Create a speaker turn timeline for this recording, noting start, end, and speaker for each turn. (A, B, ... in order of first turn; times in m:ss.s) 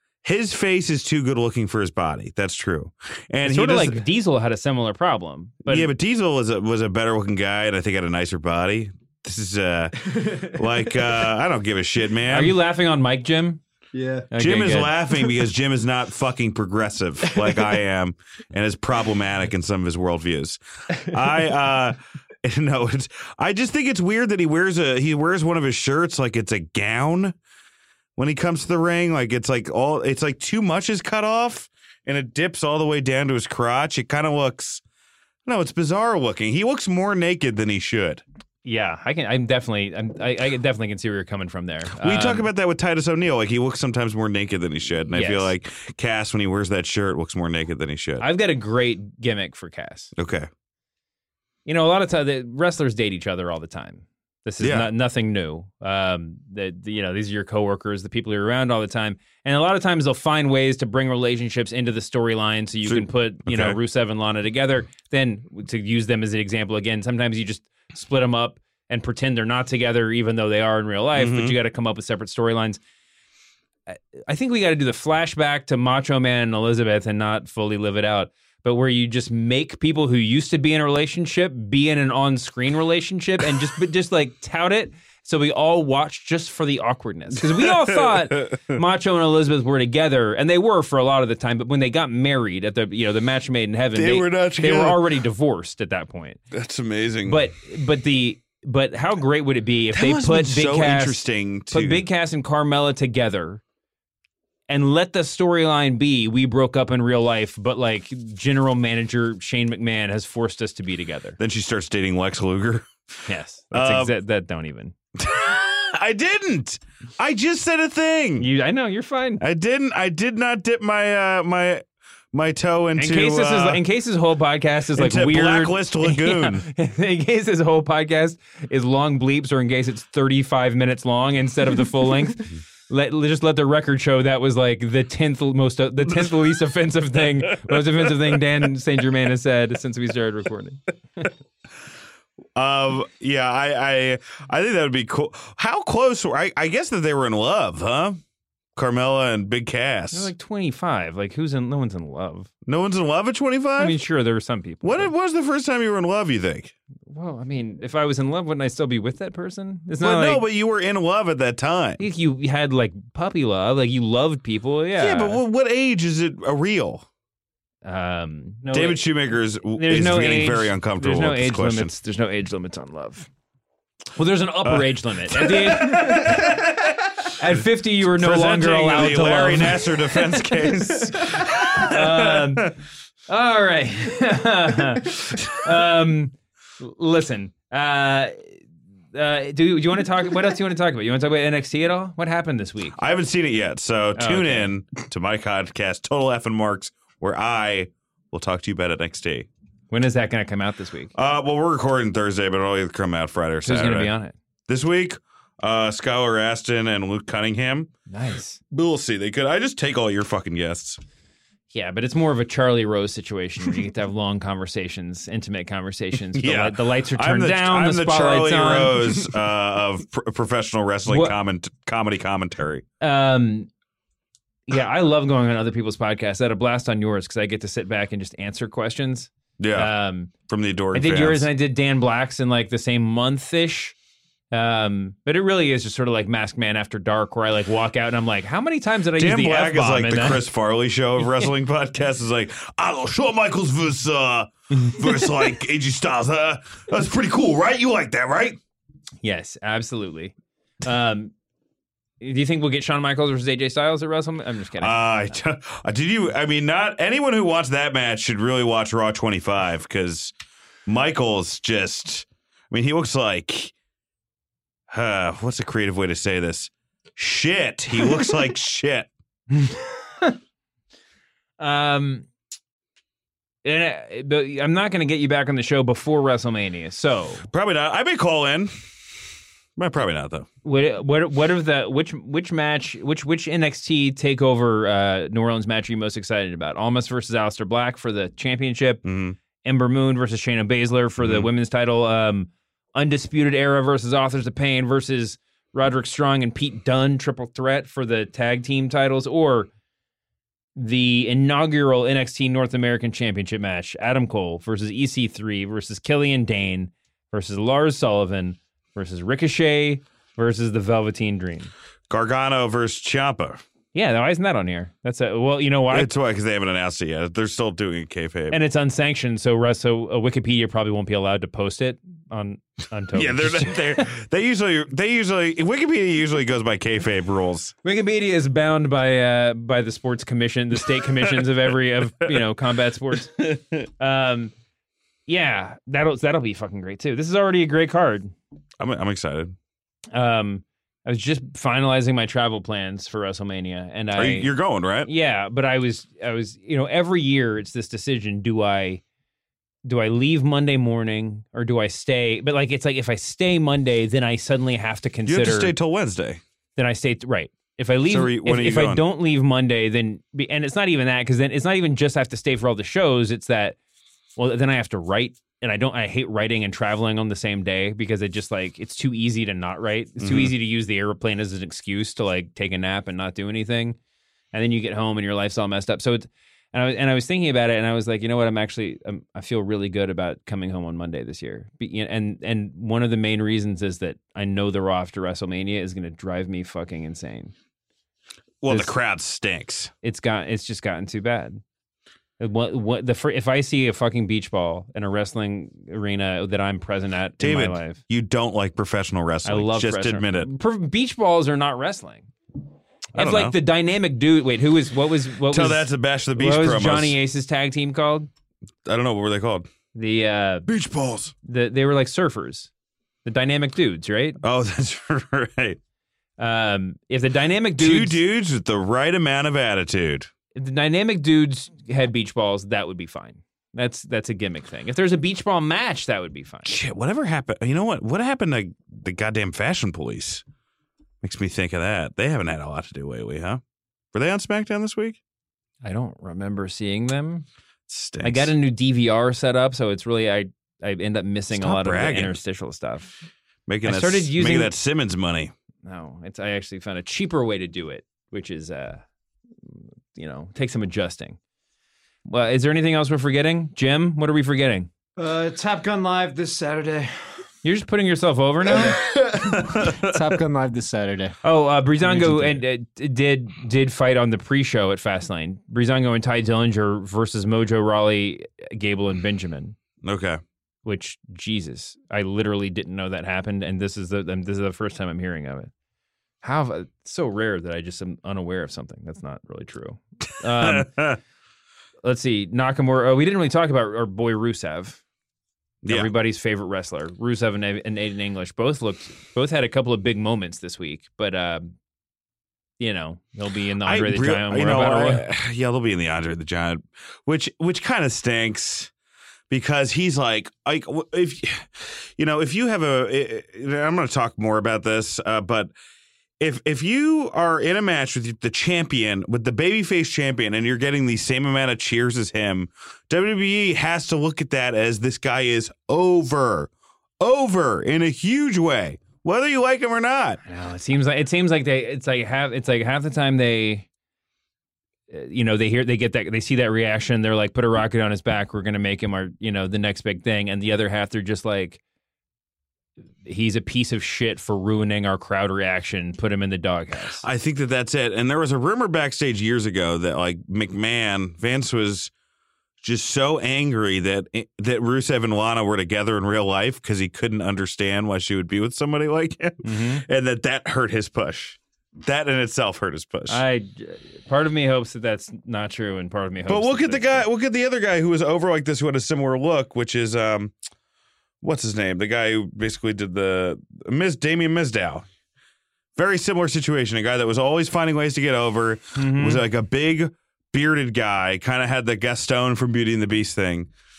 0:00.2-0:04.1 A
0:03.4-0:05.9 B
0:05.6-0:12.6 A
0:12.3-0:13.6 B
0:14.3-0:14.9 B
0:14.3-0:27.4 A
0:28.2-0:34.8 A
0:35.4-0:38.2 A
0:38.6-0:42.5 B
0:42.0-0:48.2 A
0:45.1-0:45.5 B
0:48.2-0:50.1 B
0:50.2-0:50.5 A
0:51.7-1:12.8 B
0:54.6-0:54.9 A
1:02.8-1:03.8 A
1:11.2-1:11.6 A
1:13.9-1:36.4 B
1:27.4-1:28.8 A
1:33.9-1:35.0 A
1:36.5-1:37.5 A
1:37.2-1:43.6 B
1:39.9-1:42.1 A
1:44.7-1:51.4 B
1:51.4-1:54.1 A
1:53.3-1:55.0 B
1:55.2-1:58.5 A
1:58.4-1:59.4 B
1:59.4-2:03.8 A
2:03.0-2:21.3 B
2:05.0-2:06.7 A
2:17.7-2:18.1 A
2:22.6-2:28.2 A
2:28.8-2:30.3 A
2:30.1-2:32.5 B
2:32.6-2:34.0 A
2:33.8-2:35.1 B
2:34.8-2:36.7 A
2:37.1-2:40.4 B
2:40.0-2:42.0 A
2:42.0-2:45.4 B
2:45.0-2:47.1 A
2:47.8-2:49.1 B
2:48.7-2:51.9 A
2:49.7-2:53.3 B
2:54.2-2:56.6 B
2:54.6-2:56.6 A
2:57.4-3:02.7 B
2:58.0-3:02.7 A
3:03.3-3:08.5 B
3:09.1-3:13.0 B
3:13.0-3:19.5 A
3:14.2-3:14.7 B
3:19.9-3:21.1 B
3:21.2-3:24.1 A
3:23.6-3:24.4 B
3:24.7-3:27.9 A
3:28.1-3:28.6 B
3:28.7-3:31.0 A
3:31.7-3:39.0 B
3:36.3-3:42.8 A
3:41.1-3:41.3 B
3:43.0-3:43.7 B
3:44.7-3:50.3 B
3:49.6-3:49.9 A
3:50.5-3:51.5 A
3:50.9-3:54.0 B
3:54.5-4:00.4 B
3:59.2-4:08.6 A
4:09.2-4:11.3 B
4:12.2-4:15.0 B
4:14.8-4:20.3 A
4:20.9-4:23.7 A
4:24.9-4:29.1 A
4:29.5-4:30.4 B
4:31.6-4:32.3 B
4:33.6-4:37.4 B
4:37.5-4:39.0 A
4:39.8-4:40.5 A
4:40.6-4:49.0 B
4:49.0-4:49.4 A
4:49.6-4:59.7 B
4:51.2-4:51.5 A
5:00.8-5:11.7 B
5:12.1-5:13.6 A
5:13.9-5:16.1 B
5:15.9-5:18.6 A
5:18.5-5:24.1 B
5:23.1-5:27.7 A
5:27.8-5:34.5 B
5:35.3-5:38.3 B
5:38.8-5:39.6 A
5:40.1-5:44.5 B
5:44.2-5:45.1 A
5:45.1-5:49.0 B
5:49.8-5:55.7 B
5:55.3-5:56.4 A
5:56.8-6:03.8 B
5:58.1-5:59.0 A
6:04.4-6:14.0 B
6:10.2-6:10.5 A
6:14.5-6:27.5 B
6:28.6-6:29.9 A
6:30.0-6:31.6 B
6:32.4-6:38.0 B
6:37.4-6:40.5 A
6:39.4-6:42.3 B
6:43.2-6:43.6 A
6:43.2-6:48.3 B
6:45.5-6:47.2 A
6:48.8-6:49.7 A
6:50.0-6:50.7 B
6:50.7-6:51.3 A
6:51.4-6:52.7 B
6:53.2-6:54.4 B
6:54.4-6:55.8 A
6:56.4-6:58.2 B
6:57.8-7:00.3 A
7:00.6-7:06.8 B
7:06.6-7:10.4 A
7:11.2-7:13.6 A
7:14.1-7:15.2 A
7:15.8-7:17.4 B
7:17.9-7:18.5 A
7:18.2-7:23.2 B
7:21.5-7:22.4 A
7:23.7-7:25.5 A
7:23.8-7:24.7 B
7:25.8-7:29.0 B
7:29.7-7:31.4 B
7:32.3-7:34.9 B
7:35.2-7:37.0 C
7:37.6-7:39.0 B
7:38.9-7:40.3 A
7:40.2-7:41.4 C
7:41.4-7:49.8 B
7:50.0-7:50.4 A
7:50.8-7:55.7 B
7:56.4-8:00.9 B
8:00.6-8:01.2 A
8:02.0-8:05.0 B
8:05.8-8:06.1 A
8:05.9-8:11.7 B
8:12.8-8:15.2 B
8:13.8-8:18.9 A
8:19.5-8:25.7 A
8:26.4-8:40.4 A
8:40.4-8:43.9 B
8:45.1-8:51.8 B
8:53.2-8:57.2 B
8:57.2-9:02.1 A
9:02.8-9:13.4 A
9:09.6-9:10.0 B
9:13.3-9:17.2 B
9:16.5-9:20.6 A
9:21.4-9:25.1 A
9:26.0-9:33.7 A
9:29.0-9:29.4 B